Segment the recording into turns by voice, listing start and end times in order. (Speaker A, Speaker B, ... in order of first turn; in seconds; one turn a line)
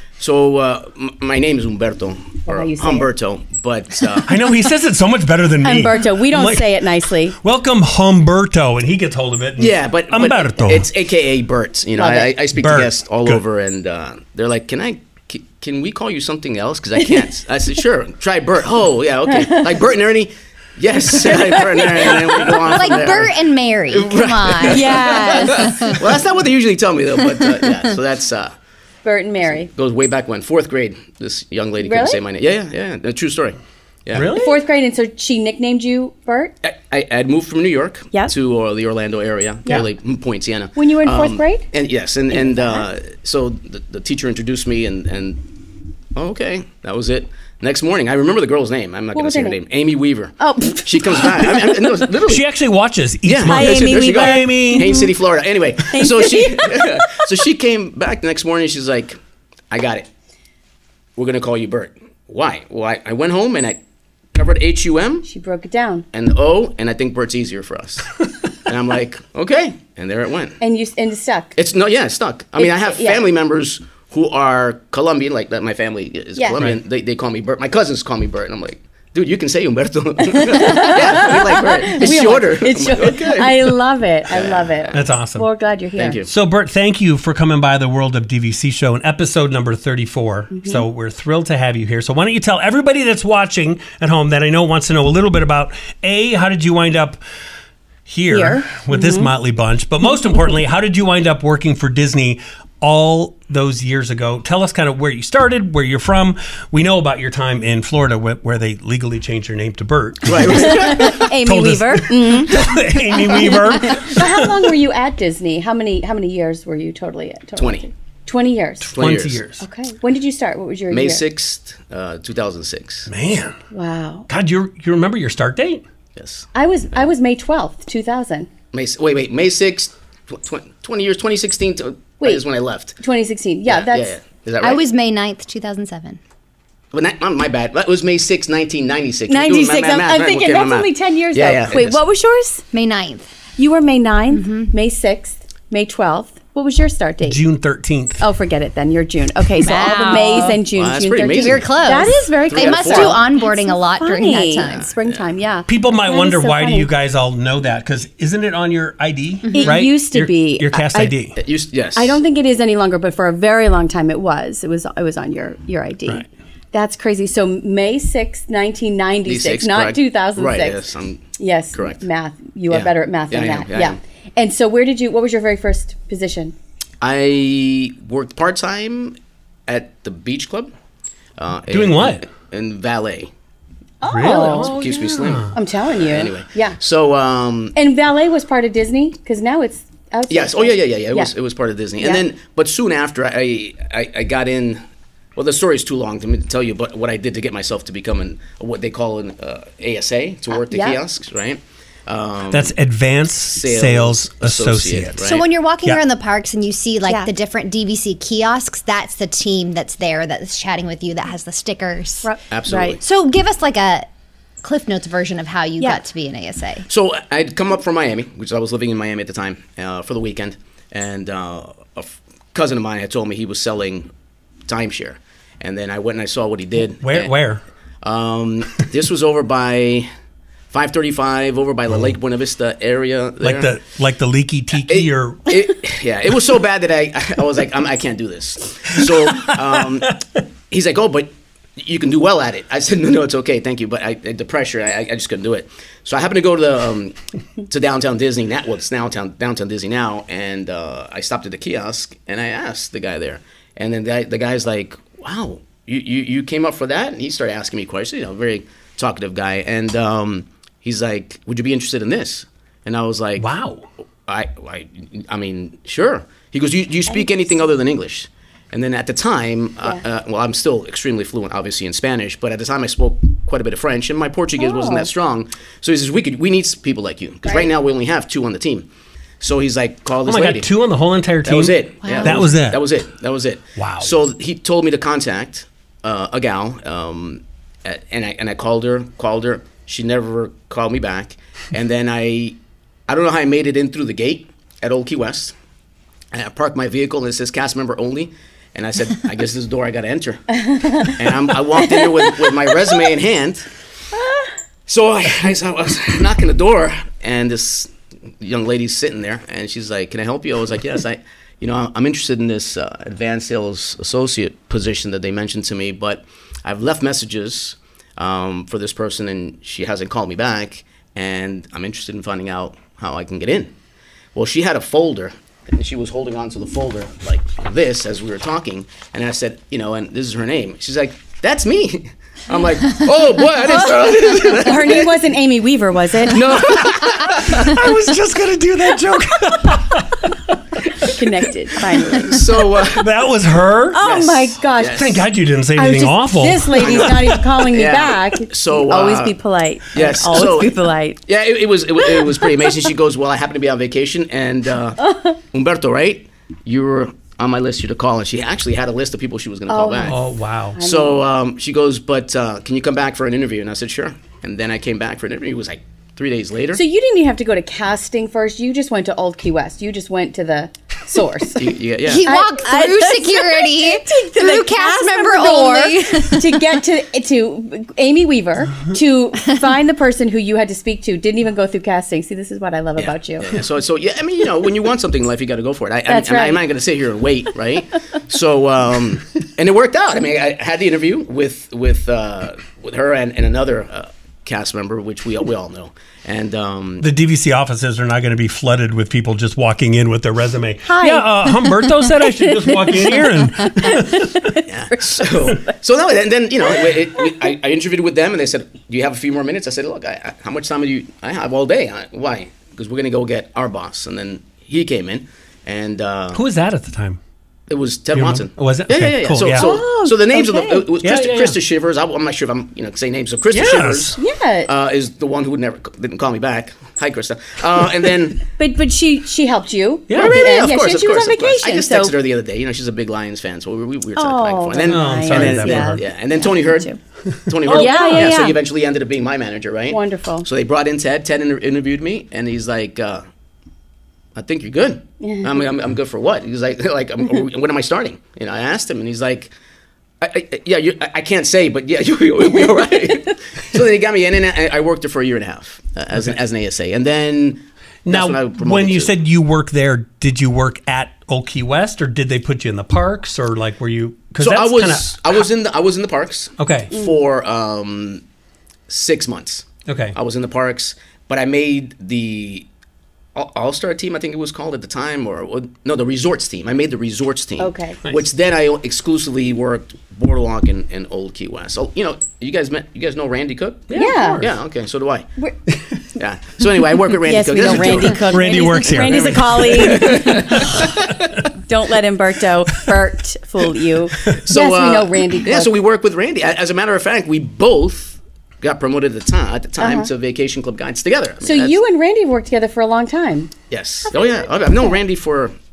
Speaker A: 0.2-4.3
Speaker B: 2.5-3.1
Speaker C: 4.3-10.9
Speaker B: 5.6-7.4
Speaker A: 9.6-23.3
Speaker B: 11.9-12.3
Speaker C: 12.5-13.4
Speaker D: 22.6-26.0
Speaker A: 23.9-28.5
Speaker B: 24.6-26.0
Speaker B: 29.1-29.7
Speaker A: 29.5-34.3
Speaker B: 31.8-32.2
Speaker C: 34.1-34.6
Speaker B: 34.3-36.5
Speaker A: 36.6-45.5
Speaker B: 40.8-41.7
Speaker B: 42.4-42.8
Speaker A: 46.1-52.5
Speaker B: 49.1-49.6
Speaker B: 50.4-51.5
Speaker C: 52.2-55.0
Speaker A: 53.3-59.2
Speaker B: 53.4-55.1
Speaker B: 55.9-57.2
Speaker A: 59.7-60.1
Speaker A: 61.2-63.8
Speaker A: 64.3-65.3
Speaker B: 65.2-66.1
Speaker A: 66.1-70.6
Speaker B: 70.6-71.5
Speaker A: 71.6-83.7
Speaker B: 72.6-73.2
Speaker B: 80.3-86.2
Speaker A: 84.3-85.0
Speaker C: 84.9-85.5
Speaker A: 86.0-86.3
Speaker C: 86.2-97.2
Speaker B: 90.5-90.8
Speaker C: 98.1-114.5
Speaker B: 98.3-99.3
Speaker A: 110.3-111.2
Speaker B: 110.5-118.9
Speaker A: 117.6-117.9
Speaker C: 118.9-119.6
Speaker A: 118.9-119.4
Speaker B: 119.6-121.2
Speaker A: 120.9-123.1
Speaker C: 123.1-123.6
Speaker B: 123.7-124.3
Speaker C: 124.3-125.8
Speaker A: 126.2-126.5
Speaker B: 126.5-128.5
Speaker A: 128.7-133.0
Speaker B: 133.0-134.2
Speaker A: 133.7-134.8
Speaker D: 134.6-136.2
Speaker A: 136.9-142.0
Speaker B: 139.3-142.6
Speaker D: 142.7-143.3
Speaker B: 143.6-147.4
Speaker D: 144.3-144.7
Speaker C: 147.2-148.2
Speaker B: 148.2-156.9
Speaker D: 149.6-150.6
Speaker A: 150.7-151.9
Speaker D: 151.4-154.9
Speaker A: 152.5-153.2
Speaker A: 154.6-155.3
Speaker C: 155.7-161.4
Speaker D: 159.4-159.8
Speaker B: 159.5-161.2
Speaker A: 161.4-162.2
Speaker B: 161.9-170.8
Speaker A: 169.3-172.0
Speaker B: 171.4-176.5
Speaker A: 172.7-174.0
Speaker A: 177.0-180.7
Speaker A: 181.4-183.3
Speaker C: 181.7-182.3
Speaker B: 184.0-186.8
Speaker C: 184.0-185.5
Speaker A: 184.3-187.8
Speaker B: 187.8-191.3
Speaker A: 190.3-194.8
Speaker B: 192.0-192.2
Speaker A: 195.4-202.7
Speaker B: 200.7-201.0
Speaker C: 202.5-205.2
Speaker A: 203.5-205.4
Speaker D: 205.2-212.3
Speaker B: 212.2-213.0
Speaker A: 212.5-213.0
Speaker D: 213.0-214.1
Speaker D: 214.6-216.9
Speaker A: 216.9-224.1
Speaker A: 224.7-227.3
Speaker C: 227.0-227.6
Speaker A: 228.0-230.1
Speaker A: 230.7-233.7
Speaker C: 233.4-235.6
Speaker A: 234.8-263.5
Speaker C: 239.3-239.7
Speaker C: 263.4-263.8
Speaker A: 264.3-278.9
Speaker B: 274.6-275.1
Speaker A: 279.4-280.7
Speaker C: 280.2-282.8
Speaker A: 281.4-295.6
Speaker D: 282.0-282.4
Speaker C: 283.8-284.1
Speaker A: 296.3-303.7
Speaker B: 300.6-301.1
Speaker B: 301.8-302.9
Speaker B: 304.1-304.5
Speaker A: 304.9-323.7
Speaker A: 324.3-335.2
Speaker B: 333.7-336.4
Speaker A: 336.3-337.9
Speaker C: 336.5-341.1
Speaker B: 341.0-342.4
Speaker C: 342.1-344.1
Speaker A: 342.2-343.1
Speaker B: 343.9-345.2
Speaker A: 344.0-345.2
Speaker C: 344.9-347.4
Speaker B: 345.8-351.2
Speaker A: 346.8-349.4
Speaker A: 349.9-360.2
Speaker B: 352.0-352.5
Speaker B: 355.0-355.4
Speaker B: 359.7-360.2
Speaker C: 360.1-360.8
Speaker B: 360.7-361.2
Speaker A: 360.8-366.8
Speaker B: 366.7-383.5
Speaker A: 371.6-372.3
Speaker D: 372.1-376.6
Speaker A: 383.0-397.1
Speaker B: 386.1-386.6
Speaker C: 397.0-404.6
Speaker B: 400.9-405.8
Speaker A: 404.7-416.4
Speaker C: 416.3-417.2
Speaker A: 417.7-428.5
Speaker C: 418.1-419.7
Speaker B: 419.6-420.9
Speaker C: 421.0-421.6
Speaker C: 423.5-424.2
Speaker B: 424.2-424.7
Speaker B: 428.6-432.1
Speaker C: 430.1-430.4
Speaker A: 430.1-436.9
Speaker B: 434.2-437.0
Speaker C: 434.9-436.1
Speaker C: 437.3-438.4
Speaker A: 437.5-443.2
Speaker B: 437.7-438.6
Speaker B: 439.9-440.5
Speaker A: 444.4-449.5
Speaker B: 445.2-445.7
Speaker A: 450.2-459.1
Speaker C: 458.1-465.4
Speaker A: 464.4-468.2
Speaker C: 466.6-466.9
Speaker A: 468.9-472.7
Speaker C: 469.9-470.1
Speaker A: 473.4-485.3
Speaker B: 477.6-478.0
Speaker C: 483.9-484.6
Speaker B: 484.0-484.4
Speaker C: 485.7-486.0
Speaker A: 486.2-488.3
Speaker B: 487.2-490.6
Speaker C: 487.6-491.5
Speaker A: 488.9-491.2
Speaker B: 491.7-495.7
Speaker A: 494.2-501.8
Speaker B: 499.8-500.1
Speaker B: 501.4-503.5
Speaker A: 503.7-505.6